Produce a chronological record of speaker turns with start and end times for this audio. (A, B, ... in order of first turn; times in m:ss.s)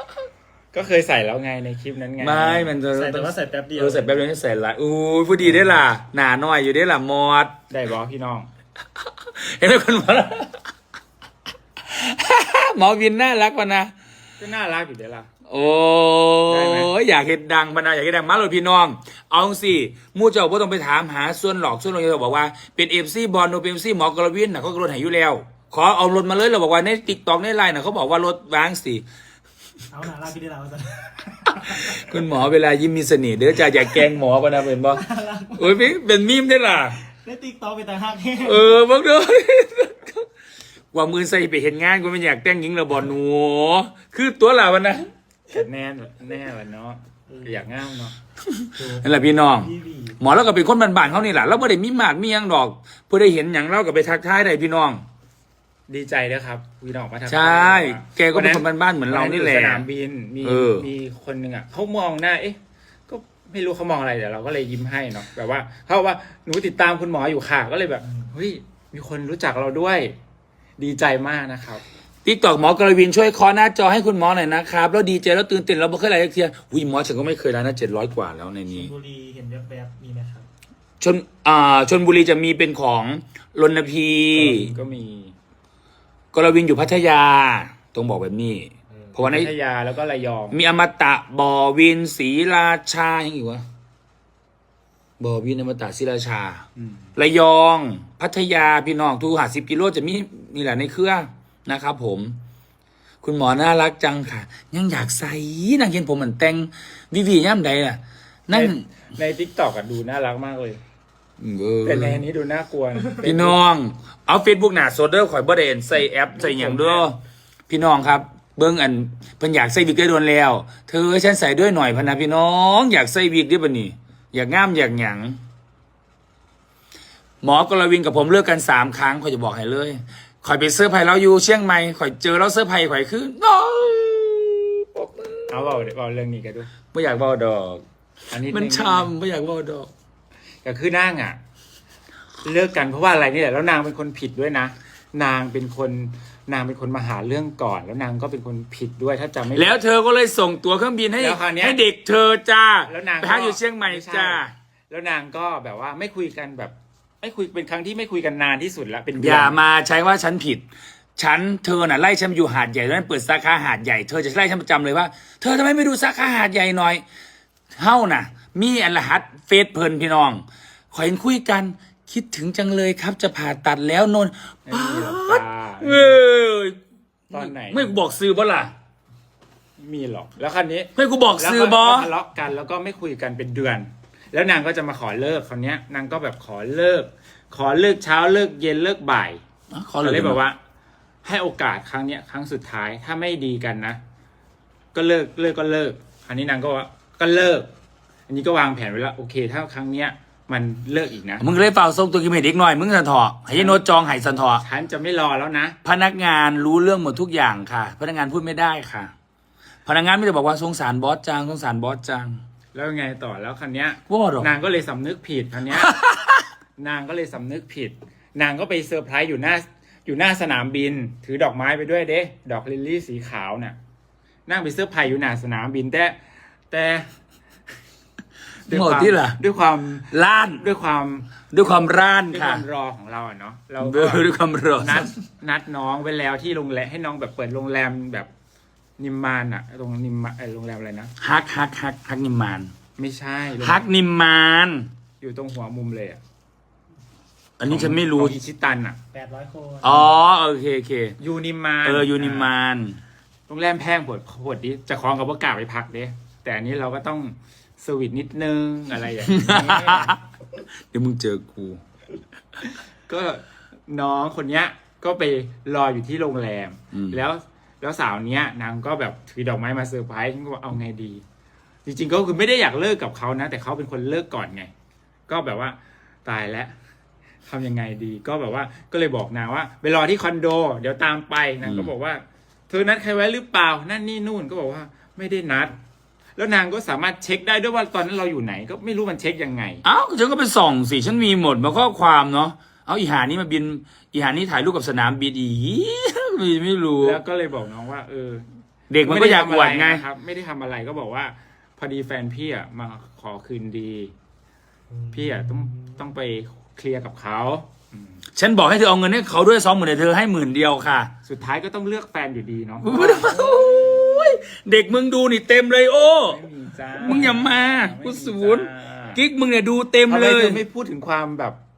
0:00.7-0:02.7 A
0:02.2-0:07.6 B
0:02.9-0:04.2 C
0:07.7-0:08.5 A
0:09.0-0:10.6 B
0:11.8-0:13.9 B
0:14.4-0:15.3 A
0:15.5-0:29.0 B
0:16.5-0:16.9 A
0:29.9-0:32.0 C
0:31.5-0:37.0 B
0:34.8-0:35.8 C
0:37.2-0:38.7 C
0:38.4-0:40.3 B
0:40.9-0:45.1 B
0:45.5-0:48.2 A
0:48.4-0:55.0 B
0:48.8-0:50.3 C
0:55.9-1:10.2 A
0:57.3-0:59.8 B
1:00.4-1:00.9 B
1:10.8-1:11.8 A
1:12.2-1:18.9 B
1:18.7-1:20.5 C
1:21.0-1:24.7 B
1:24.3-1:25.4 A
1:26.3-1:29.5 B
1:29.2-1:30.6 A
1:30.5-1:33.6 B
1:35.2-1:36.6 B
1:37.2-1:42.4 B
1:43.2-1:48.9 B
1:48.5-1:50.8 A
1:51.4-1:52.2 B
1:51.8-1:53.6 A
1:53.2-1:57.2 B
1:56.4-1:57.1 A
1:57.7-2:05.4 B
2:07.4-2:15.7 B
2:15.5-2:16.7 A
2:16.9-2:17.8 B
2:18.3-2:19.1 A
2:18.5-2:19.9 B
2:20.6-2:21.4 A
2:22.4-2:29.8 A
2:29.5-2:34.5 B
2:31.2-2:31.8 A
2:32.9-2:39.6 A
2:39.2-2:40.6 B
2:41.2-2:47.0 B
2:47.8-2:56.8 B
2:54.7-2:56.2 A
2:57.3-2:58.7 B
2:57.3-2:57.9 A
2:59.8-3:09.4 A
3:01.0-3:02.1 B
3:09.7-3:10.4 B
3:10.0-3:10.6 A
3:11.2-3:14.0 A
3:14.9-3:17.7 A
3:18.3-3:21.4 A
3:21.4-3:24.6 B
3:23.5-3:25.8 A
3:25.8-3:29.1 B
3:29.9-3:32.4 B
3:32.7-3:35.9 A
3:34.1-3:34.5 B
3:35.7-3:36.4 B
3:36.8-3:43.8 A
3:44.5-3:46.2 A
3:46.7-3:47.1 A
3:48.6-3:51.4 A
3:48.7-3:49.4 B
3:50.1-3:50.6 B
3:51.5-3:52.6 B
3:52.3-3:54.3 A
3:53.8-3:55.1 B
3:54.8-3:58.3 A
3:59.0-4:01.1 A
4:01.2-4:02.7 B
4:03.0-4:03.9 A
4:03.6-4:04.9 B
4:05.2-4:06.2 A
4:07.6-4:08.4 B
4:07.7-4:09.0 A
4:09.1-4:10.1 C
4:09.8-4:11.2 B
4:11.2-4:12.5 A
4:11.8-4:13.0 B
4:13.5-4:20.2 A
4:19.2-4:20.2 B
4:20.9-4:21.8 B
4:23.1-4:31.2 A
4:26.9-4:27.2 B
4:31.9-4:34.7 A
4:35.3-4:36.7 A
4:37.5-4:45.8 A
4:41.6-4:41.9 B
4:46.4-4:49.8 A
4:49.8-4:57.2 B
4:57.0-4:58.5 A
4:58.9-5:00.0 B
4:59.0-5:04.1 A
5:05.0-5:05.5 C
5:05.1-5:08.2 A
5:08.4-5:11.1 B
5:11.2-5:13.8 A
5:12.8-5:16.4 B
5:16.3-5:19.2 A
5:17.0-5:20.6 B
5:20.1-5:21.6 A